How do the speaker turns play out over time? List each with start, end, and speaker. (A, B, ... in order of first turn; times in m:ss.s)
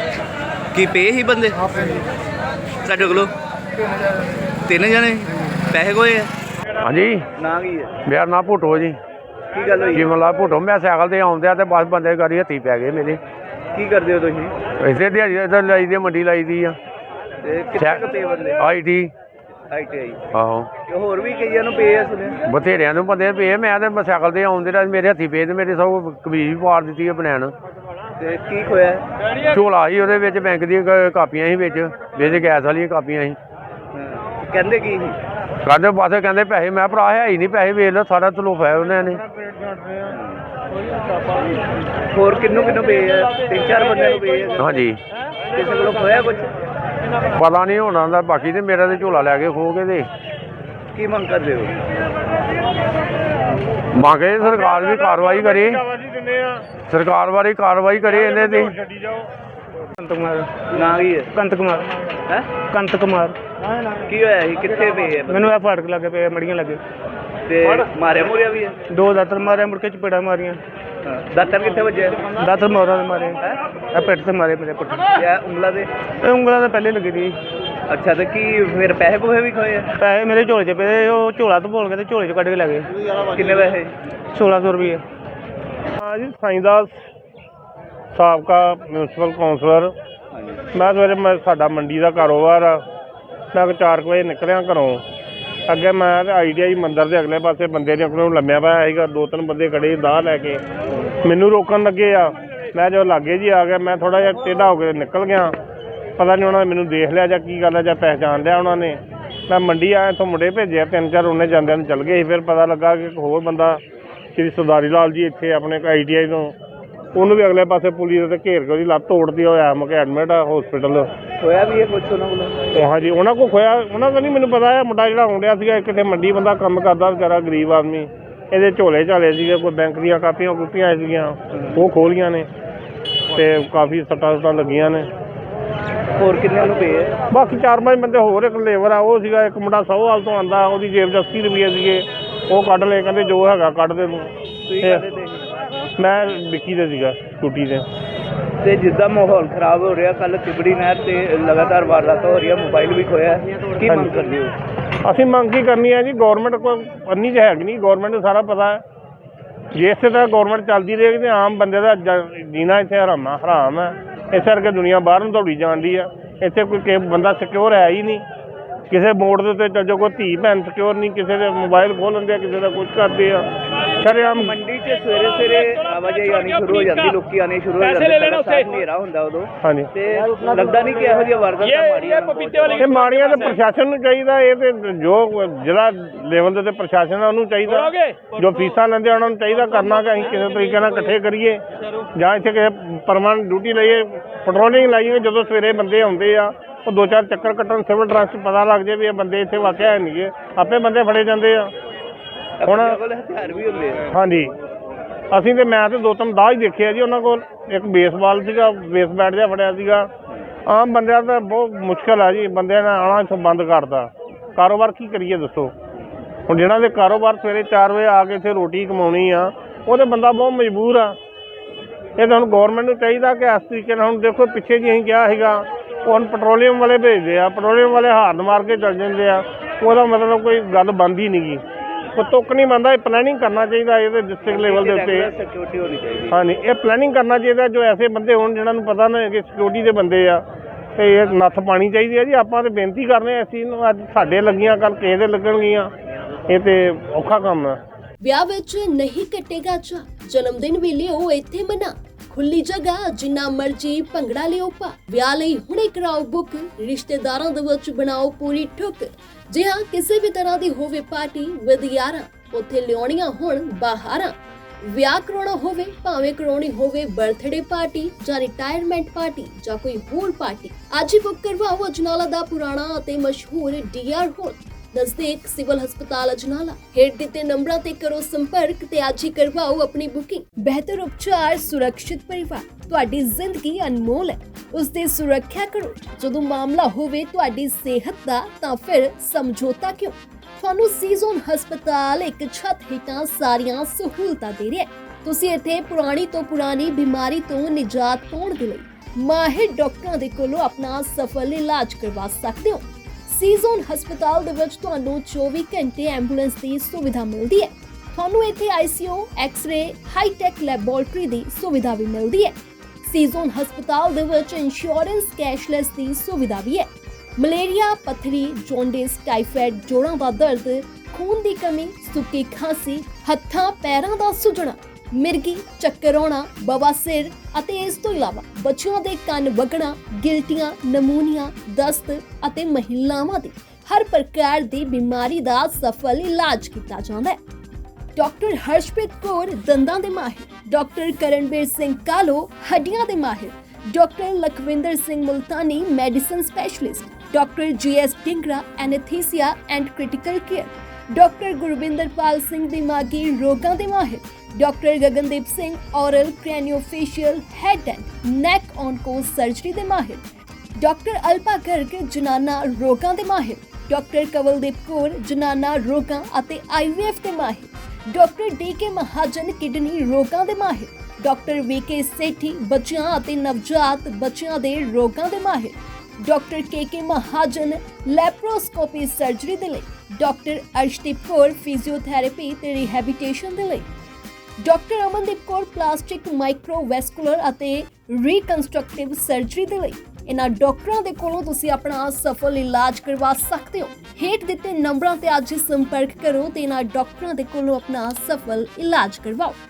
0:00.7-0:01.7 A
0:02.8-0:03.3 A
0:04.7-0:06.3 A
0:06.8-0:07.2 B
0:07.4-0:07.9 A
0:08.0-0:09.0 B
0:09.5-0:10.1 A
0:09.9-0:13.2 B
0:13.7-0:14.6 A
0:14.8-0:16.8 B
0:17.4-0:18.6 A
0:17.8-0:19.1 B
0:19.7-0:20.2 A
0:20.3-0:20.7 B
0:20.9-0:22.4 A
0:22.5-0:27.5 B
0:28.2-0:29.0 A
0:29.5-0:33.4 B
0:33.9-0:35.2 A
0:35.6-0:39.2 B
0:40.1-0:40.4 A
0:42.1-0:44.8 A
0:44.6-0:45.0 B
0:45.5-0:46.5 A
0:47.4-0:50.1 B
0:50.9-0:51.8 A
0:53.9-0:55.8 B
0:54.8-0:56.7 C
0:56.8-0:58.8 B
1:00.0-1:00.6 D
1:00.7-1:01.3 A
1:01.3-1:01.9 D
1:02.7-1:03.4 D
1:04.1-1:05.5 A
1:05.2-1:06.8 D
1:07.5-1:08.8 A
1:08.9-1:10.6 D
1:11.0-1:12.3 A
1:12.3-1:13.4 D
1:13.9-1:15.2 D
1:15.2-1:15.9 A
1:16.2-1:17.4 D
1:17.9-1:19.9 A
1:20.0-1:22.9 D
1:23.3-1:24.0 A
1:24.3-1:25.0 D
1:26.0-1:26.9 C
1:28.1-1:29.9 C
1:30.3-1:30.6 A
1:30.7-1:32.8 C
1:33.5-1:35.0 C
1:35.7-1:40.6 C
1:41.2-1:45.6 C
1:46.2-1:53.8 C
1:54.4-1:56.5 C
1:57.1-2:01.1 C
2:01.4-2:02.7 A
2:02.7-2:12.5 C
2:13.3-2:15.1 C
2:16.2-2:17.1 A
2:17.3-2:25.0 C
2:24.7-2:25.4 A
2:26.0-2:27.9 C
2:28.6-2:34.5 A
2:33.8-2:34.3 C
2:35.0-2:38.8 C
2:39.8-2:48.2 C
2:48.9-2:53.5 C
2:54.0-2:54.5 C
2:54.0-3:03.0 A
2:59.6-2:59.9 C
3:02.8-3:11.6 C
3:12.2-3:21.7 C
3:22.6-3:24.0 A
3:22.6-3:23.0 C
3:24.1-3:24.5 C
3:25.3-3:30.1 C
3:30.7-3:35.7 C
3:36.5-3:41.2 C
3:42.2-3:51.6 C
3:52.2-3:55.3 C
3:54.5-3:56.4 A
3:56.3-4:00.4 C
4:01.0-4:05.9 C
4:06.5-4:07.8 C
4:08.2-4:24.4 E
4:24.9-5:37.4 E
5:38.2-6:00.2 E
6:00.8-6:23.9 E
6:24.6-6:39.6 E